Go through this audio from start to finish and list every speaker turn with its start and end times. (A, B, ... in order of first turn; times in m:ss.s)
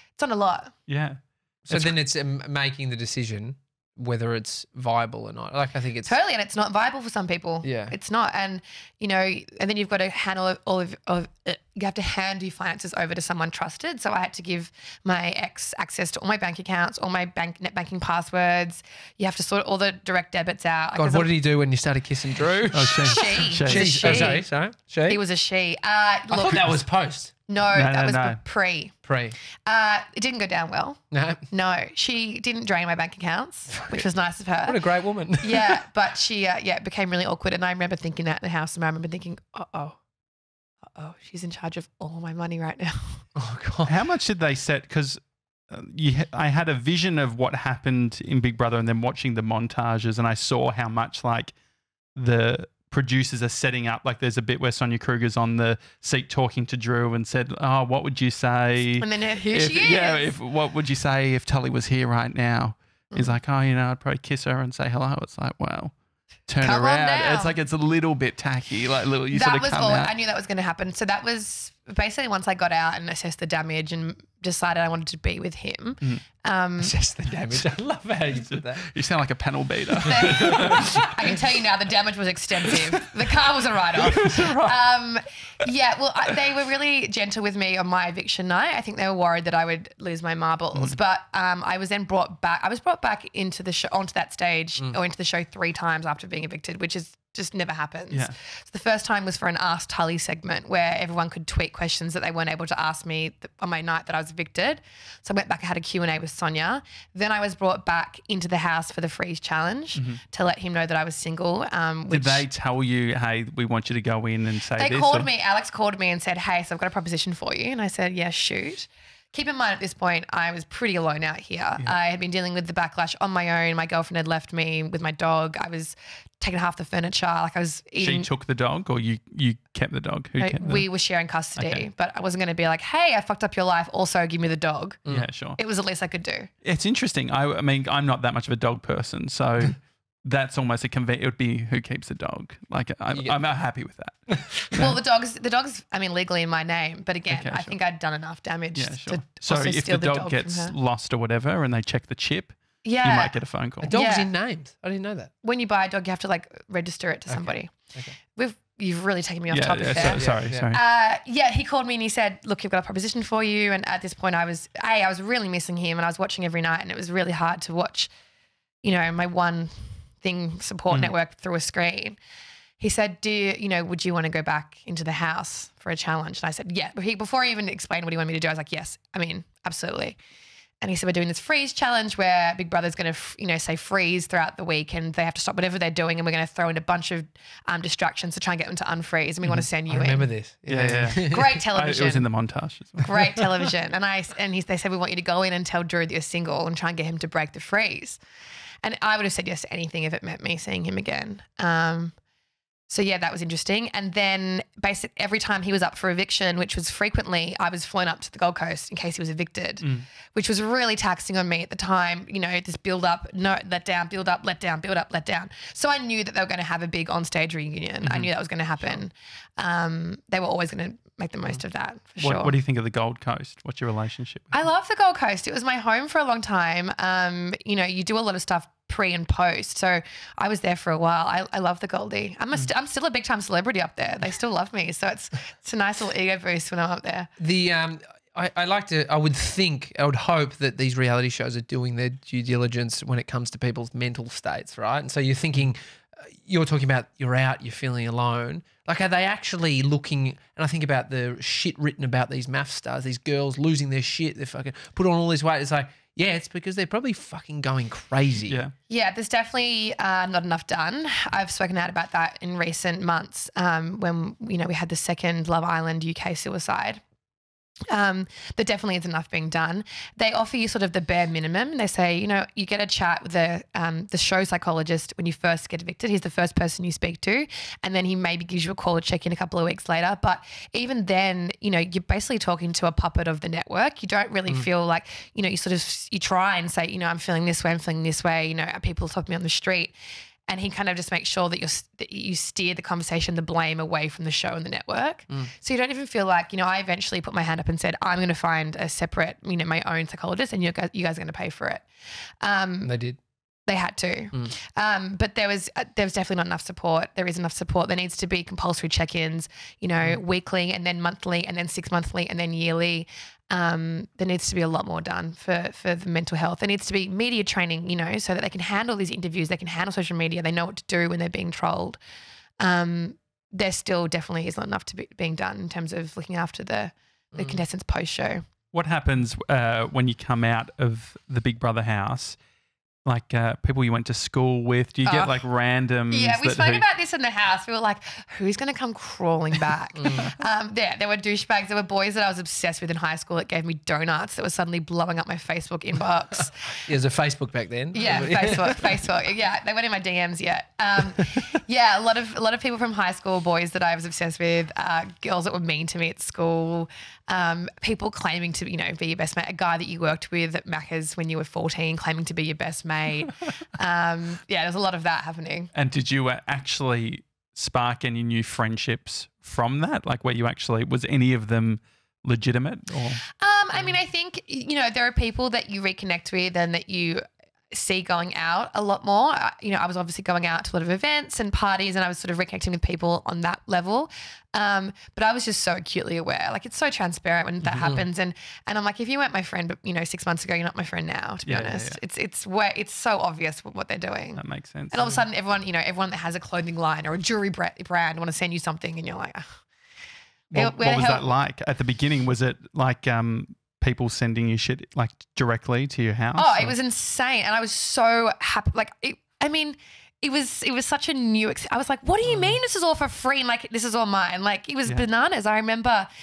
0:00.2-0:00.7 A
0:00.9-0:02.0 B
0:01.6-0:06.1 C
0:06.0-0:21.3 A
0:07.6-0:08.0 C
0:21.0-0:25.2 C
0:22.7-0:24.3 B
0:23.0-0:24.5 A
0:25.0-0:26.7 A
0:26.3-0:27.3 C
0:27.5-0:28.9 A
0:27.7-0:28.4 B
0:29.0-0:29.4 C
0:29.6-0:40.0 A
0:31.1-0:31.4 C
0:33.8-0:34.0 C
0:34.6-0:35.8 C
0:40.9-0:43.2 A
0:43.3-0:44.0 C
0:43.8-0:51.5 B
0:52.2-1:05.9 B
0:59.0-1:00.3 A
1:03.1-1:03.4 A
1:06.5-1:10.1 B
1:06.6-1:07.6 A
1:09.3-1:16.9 A
1:16.8-1:18.8 C
1:18.3-1:21.0 B
1:20.0-1:52.4 A
1:20.0-1:21.3 C
1:23.9-1:24.8 C
1:50.0-1:50.2 B
1:52.1-1:55.3 B
1:54.8-2:08.3 A
2:08.0-2:10.9 B
2:10.4-2:15.0 A
2:11.6-2:11.8 B
2:15.1-2:15.6 B
2:15.6-2:16.5 A
2:16.6-2:25.0 B
2:23.1-2:23.4 C
2:24.3-2:24.9 C
2:24.7-2:30.7 A
2:27.3-2:27.7 B
2:28.7-2:34.0 B
2:32.8-2:33.4 A
2:33.8-2:35.3 C
2:33.9-2:34.3 A
2:35.4-2:37.7 A
2:37.3-2:38.1 C
2:38.3-2:48.1 A
2:39.5-2:40.8 B
2:39.9-2:40.7 C
2:48.8-2:52.2 A
2:52.8-3:00.2 A
3:00.8-3:10.3 A
3:09.9-3:11.5 C
3:10.7-3:13.6 B
3:11.2-3:12.3 A
3:13.0-3:18.2 A
3:18.8-3:22.1 A
3:22.9-3:42.5 A
3:29.8-3:30.1 B
3:38.0-3:38.3 B
3:42.2-3:44.6 B
3:44.5-3:57.3 A
3:57.4-4:18.6 C
4:18.5-4:18.7 B
4:18.9-4:27.0 A
4:27.9-4:49.9 A
4:50.5-5:01.8 A
5:02.4-5:02.9 A
5:02.8-5:03.2 C
5:03.7-5:22.0 A
5:22.6-5:28.4 A
5:27.3-5:27.6 C
5:28.7-5:32.4 B
5:33.0-5:36.8 B
5:35.0-5:35.4 A
5:36.1-5:46.8 A
5:40.0-5:40.3 C
5:46.8-5:49.1 C
5:47.9-6:05.7 A
6:05.7-6:13.2 B
6:13.4-6:39.6 A
6:31.4-6:32.0 B
6:34.4-6:35.0 B
6:40.5-6:46.7 B
6:40.5-6:41.3 A
6:46.4-6:56.1 A